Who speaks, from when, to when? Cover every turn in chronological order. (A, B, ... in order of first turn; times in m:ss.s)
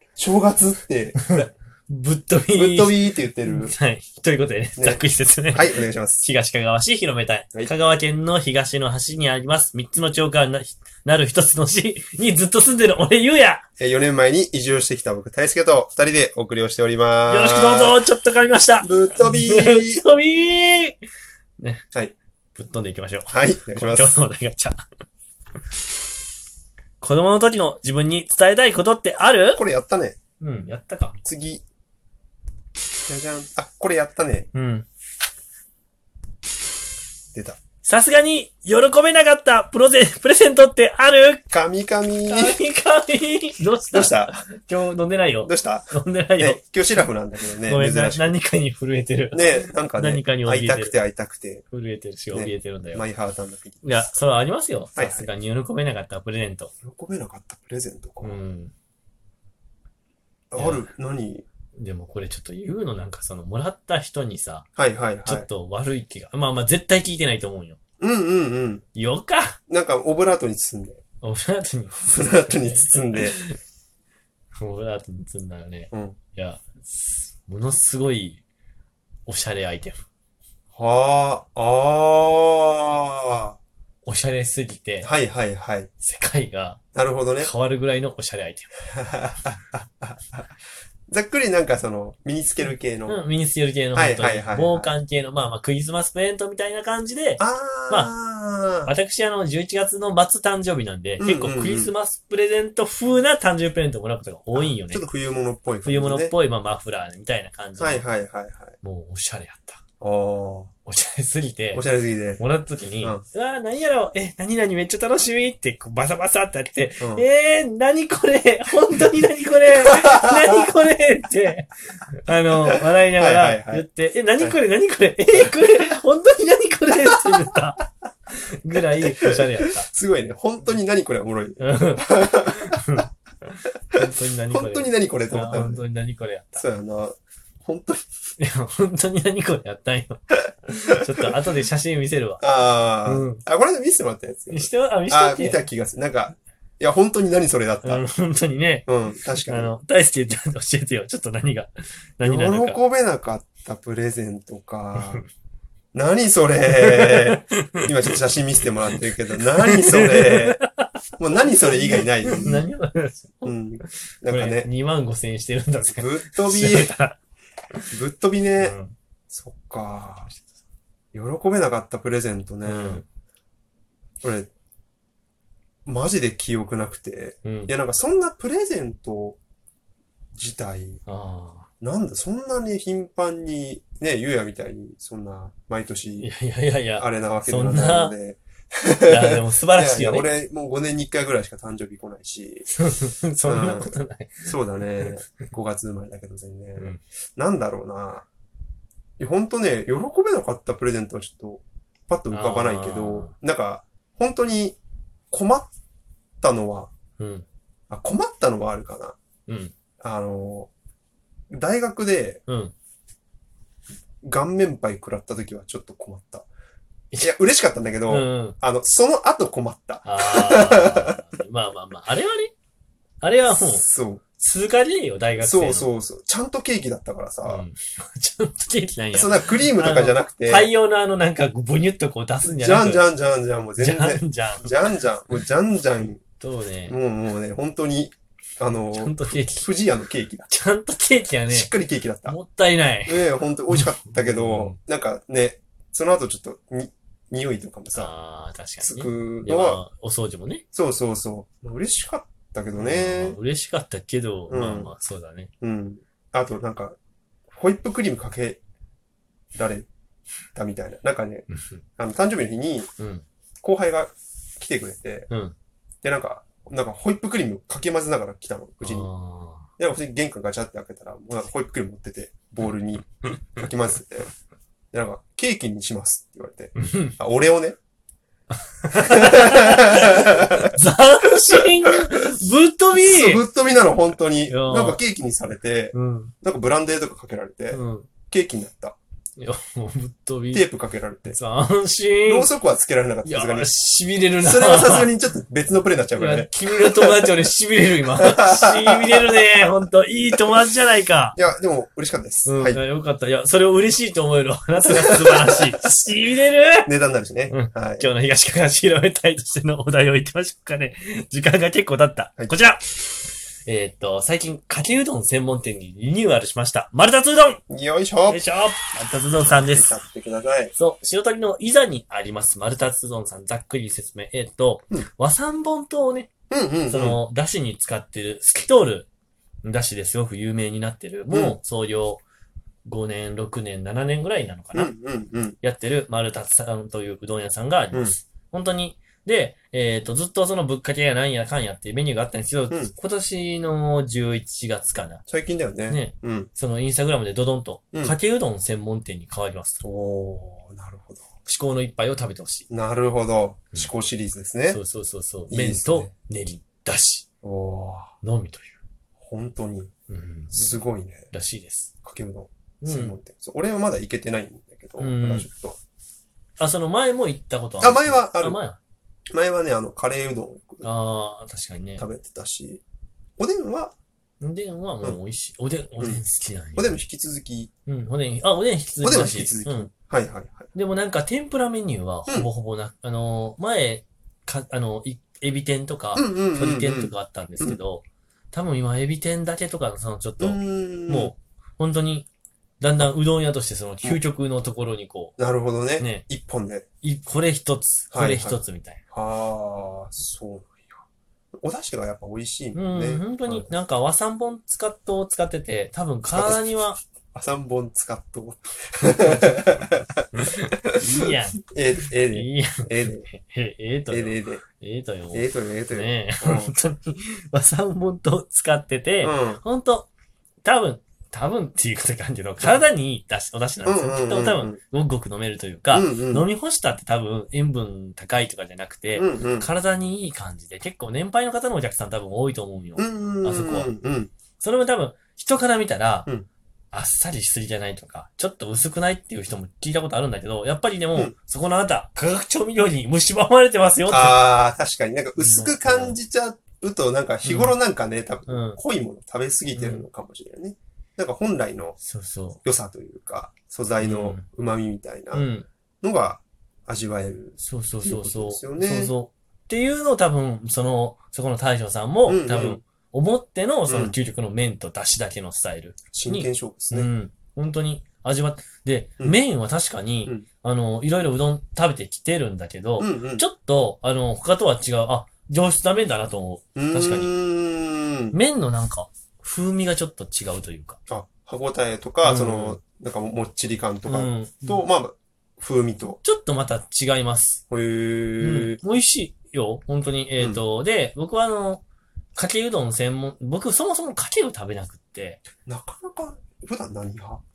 0:00.2-0:01.2 A
0:01.3-0:13.6 B
0:02.6-0:03.7 A
0:04.8-0:06.3 A
0:13.8-0:18.0 A
0:17.3-0:21.0 B
0:18.8-0:20.0 A
0:21.6-0:21.8 B
0:22.6-0:24.8 B
0:23.3-0:24.1 A
0:27.0-0:29.6 B
0:29.6-0:30.2 A
0:30.4-0:31.2 B
0:31.2-0:31.6 A
0:33.1-0:34.5 A
0:34.5-0:34.9 B
0:37.3-0:37.6 A
0:37.8-0:41.4 B
0:41.5-0:42.6 A
0:42.3-0:46.7 B
0:43.9-0:44.3 A
0:45.4-0:48.4 A
0:47.7-0:51.0 B
0:49.3-0:51.6 A
0:51.7-0:53.0 B
0:52.3-0:54.0 A
0:53.8-0:56.7 B
0:55.0-0:55.3 A
0:56.8-0:58.4 A
0:58.2-0:58.7 B
1:00.5-1:01.5 A
1:00.6-1:00.9 B
1:01.8-1:04.7 B
1:04.8-1:05.5 A
1:05.2-1:07.8 B
1:08.0-1:08.8 A
1:09.0-1:09.6 B
1:09.7-1:11.0 A
1:11.2-1:13.6 B
1:12.0-1:13.4 A
1:14.6-1:18.4 B
1:15.9-1:16.2 A
1:19.3-1:20.0 B
1:20.7-1:23.6 A
1:24.0-1:25.1 B
1:25.0-1:25.9 A
1:26.0-1:26.8 B
1:27.0-1:27.5 A
1:27.4-1:28.7 B
1:28.9-1:30.5 A
1:31.1-1:33.2 A
1:33.1-1:38.1 B
1:34.0-1:34.9 A
1:37.4-1:38.9 A
1:38.8-1:45.1 B
1:41.2-1:41.9 A
1:44.5-1:46.3 A
1:45.8-1:48.0 B
1:47.8-1:48.8 A
1:48.8-1:49.8 B
1:50.0-1:50.7 A
1:50.9-1:51.8 B
1:51.7-1:52.4 A
1:52.4-2:09.9 B
1:57.0-1:57.3 A
1:59.8-2:00.7 A
2:02.6-2:03.9 A
2:09.0-2:13.0 A
2:11.6-2:16.6 B
2:14.0-2:15.8 A
2:16.6-2:18.1 A
2:18.4-2:22.5 B
2:20.9-2:21.3 A
2:22.4-2:28.0 A
2:23.0-2:23.4 B
2:24.5-2:25.6 B
2:27.8-2:32.8 B
2:28.9-2:29.7 A
2:32.2-2:35.2 A
2:35.0-2:35.3 B
2:35.9-2:40.6 A
2:36.8-2:37.9 B
2:39.6-2:40.9 B
2:41.2-2:42.6 A
2:41.5-2:47.2 B
2:43.4-2:44.7 A
2:45.9-2:46.9 A
2:47.9-2:48.8 A
2:48.6-2:48.9 B
2:49.3-2:50.3 A
2:51.1-2:53.0 A
2:52.7-2:53.0 B
2:54.2-2:54.5 A
2:55.9-2:59.4 A
2:57.4-2:57.7 B
3:00.4-3:01.0 A
3:01.1-3:01.7 B
3:01.8-3:06.3 A
3:06.2-3:08.2 B
3:07.0-3:12.7 A
3:09.1-3:10.4 B
3:12.7-3:15.5 B
3:13.4-3:13.9 A
3:14.4-3:18.3 A
3:19.2-3:24.8 A
3:22.3-3:23.3 B
3:25.3-3:25.7 A
3:26.4-3:26.9 A
3:27.2-3:27.4 B
3:27.9-3:29.2 A
3:29.5-3:29.7 B
3:30.0-3:30.7 A
3:31.5-3:32.4 A
3:32.5-3:32.7 B
3:34.2-3:36.5 A
3:37.2-3:41.2 A
3:38.1-3:38.6 B
3:40.0-3:42.5 B
3:43.2-3:43.8 B
3:43.4-3:44.2 A
3:44.4-3:45.9 B
3:45.4-3:47.6 A
3:47.5-3:53.1 B
3:49.1-3:50.7 A
3:52.4-3:56.2 A
3:53.8-3:54.9 B
3:56.2-3:57.0 B
3:56.9-4:00.5 A
3:58.8-3:59.7 B
4:00.5-4:01.7 B
4:01.5-4:02.4 A
4:02.3-4:04.8 B
4:03.1-4:08.1 A
4:07.9-4:10.6 B
4:08.8-4:09.8 A
4:10.7-4:13.4 A
4:12.8-4:15.5 B
4:14.5-4:14.9 A
4:15.6-4:17.0 A
4:17.5-4:18.6 A
4:19.6-4:19.9 A
4:20.6-4:21.5 A
4:21.5-4:21.8 B
4:22.0-4:22.9 A
4:23.0-4:23.2 B
4:23.6-4:25.3 A
4:26.0-4:29.1 A
4:28.8-4:29.7 B
4:29.8-4:34.3 A
4:34.9-4:37.8 A
4:36.8-4:37.2 B
4:38.8-4:43.4 B
4:38.9-4:40.7 A
4:43.0-4:49.0 A
4:44.5-4:45.0 B
4:45.9-4:46.3 B
4:47.7-4:48.1 B
4:49.4-4:50.6 B
4:50.5-4:51.4 A
4:51.3-4:52.5 B
4:52.3-4:53.7 A
4:53.2-4:55.1 B
4:54.4-4:57.3 A
4:56.2-5:01.4 B
4:58.2-4:59.5 A
5:01.4-5:02.8 A
5:02.5-5:06.9 B
5:04.8-5:05.8 A
5:06.8-5:08.1 A
5:07.5-5:17.6 B
5:17.7-5:18.4 A
5:18.3-5:20.0 B
5:19.4-5:20.7 A
5:20.8-5:26.3 B
5:26.5-5:27.2 A
5:26.9-5:29.1 B
5:29.6-5:32.2 B
5:31.3-5:31.6 A
5:32.9-5:35.0 B
5:34.7-5:35.6 A
5:35.6-5:45.2 B
5:45.3-5:46.5 A
5:45.9-5:49.8 B
5:49.8-5:51.3 A
5:51.4-5:52.7 B
5:52.7-5:54.8 A
5:54.7-5:57.2 B
5:55.5-5:56.1 A
5:57.4-5:58.1 A
5:58.2-5:58.8 B
5:59.2-5:59.9 A
6:00.1-6:01.9 B
6:00.5-6:01.3 A
6:02.0-6:05.8 A
6:02.8-6:03.2 B
6:05.0-6:05.5 B
6:06.6-6:08.8 B
6:07.8-6:08.6 A
6:09.3-6:10.9 A
6:10.8-6:12.0 B
6:12.0-6:12.8 A
6:13.4-6:14.0 A
6:14.4-6:17.0 B
6:16.8-6:17.7 A
6:17.9-6:19.9 B
6:19.0-6:20.7 A
6:20.7-6:32.3 B
6:26.2-6:27.8 A
6:30.4-6:31.3 A
6:32.8-6:35.4 B
6:35.4-6:36.8 A
6:36.0-6:36.2 B
6:37.0-6:39.0 B
6:38.1-6:41.0 A
6:41.6-6:43.7 A
6:42.7-6:47.0 B
6:46.3-6:46.7 A
6:47.3-6:50.3 A
6:49.3-6:49.6 B
6:50.3-6:51.6 B
6:50.9-6:53.3 A
6:52.3-7:00.1 B
6:54.1-6:54.6 A
6:55.3-6:56.7 A
6:59.2-6:59.6 A
7:00.6-7:13.9 B
7:03.8-7:04.8 A
7:05.9-7:06.5 A
7:09.2-7:09.7 A
7:13.0-7:14.3 A
7:14.6-7:16.3 B
7:16.9-7:24.5 B
7:24.1-7:32.0 A
7:25.4-7:26.2 B
7:27.4-7:27.8 B
7:28.5-7:28.8 B
7:29.8-7:30.0 B
7:32.0-7:32.6 B
7:32.6-7:35.5 A
7:34.0-7:34.4 B
7:35.3-7:35.7 B
7:36.0-7:39.1 A
7:37.6-7:57.3 B
7:42.3-7:42.8 A
7:43.9-7:44.2 A
7:46.1-7:47.1 A
7:53.0-7:53.5 A
7:56.8-7:58.4 A
7:58.3-8:01.0 B
8:01.1-8:06.2 A
8:02.2-8:02.8 B
8:04.1-8:04.8 B
8:06.2-8:07.6 B
8:07.7-8:08.8 A
8:08.4-8:11.8 B
8:12.4-8:15.4 B
8:15.7-8:17.4 A